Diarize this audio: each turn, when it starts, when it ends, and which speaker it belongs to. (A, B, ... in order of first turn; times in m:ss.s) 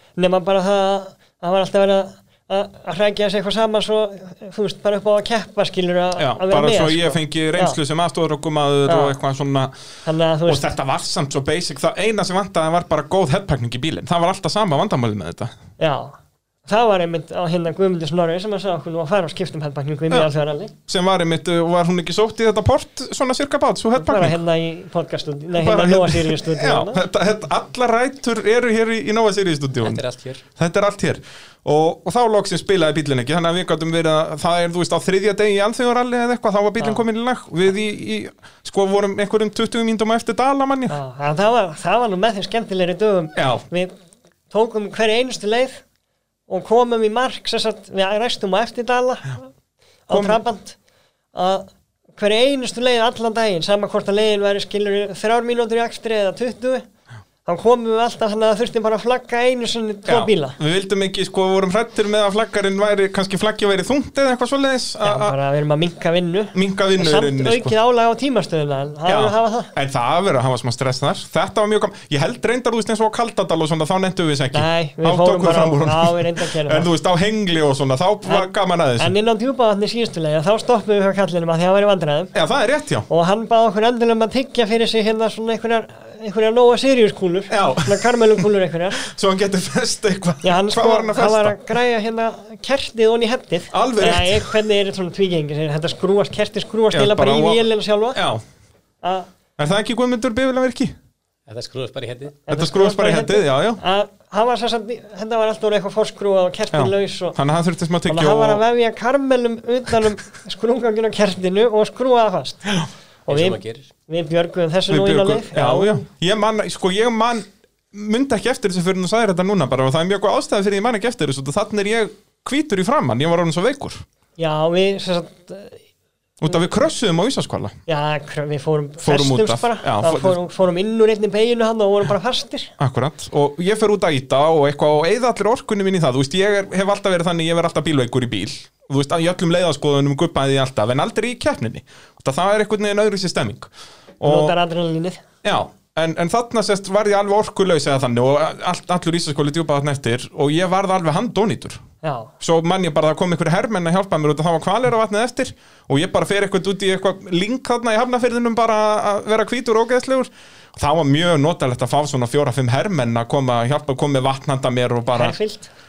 0:00.2-0:07.8 A
0:06.2-0:09.7 B
0:08.8-0:09.1 A
0:10.0-0:10.6 A
0:10.4-0:15.5 B
0:15.8-0:20.7 A
0:20.9-0:24.4 B
0:24.0-0:27.0 A
0:25.6-0:30.0 B
0:29.8-0:30.4 C
0:30.6-0:41.0 B
0:36.8-0:37.0 A
0:40.9-0:43.9 A
0:43.4-0:43.6 B
0:44.5-0:45.8 A
0:46.5-0:49.5 A
0:50.1-0:50.8 A
0:50.1-0:50.4 B
0:51.3-0:56.8 A
0:57.4-1:00.6 A
1:00.1-1:05.4 B
1:05.0-1:09.7 A
1:06.5-1:07.7 B
1:09.1-1:19.1 B
1:14.5-1:16.9 A
1:18.2-1:22.3 A
1:22.3-1:23.1 B
1:23.1-1:29.0 A
1:27.5-1:28.4 B
1:29.0-1:31.6 B
1:30.4-1:38.2 A
1:33.7-1:34.6 B
1:36.9-1:38.4 B
1:39.0-1:39.3 A
1:39.6-1:41.0 B
1:41.5-1:42.4 C
1:42.5-1:47.4 A
1:42.5-1:43.8 B
1:46.7-1:48.6 B
1:48.1-1:52.7 A
1:53.3-1:56.0 A
1:53.3-1:53.9 C
1:54.9-2:04.0 B
2:04.4-2:05.8 A
2:06.4-2:07.8 B
2:07.9-2:12.7 A
2:09.0-2:10.4 B
2:12.8-2:23.7 B
2:24.2-2:24.5 B
2:24.2-2:25.2 A
2:25.4-2:31.8 B
2:32.0-2:32.3 A
2:32.4-2:45.4 B
2:45.1-2:45.7 A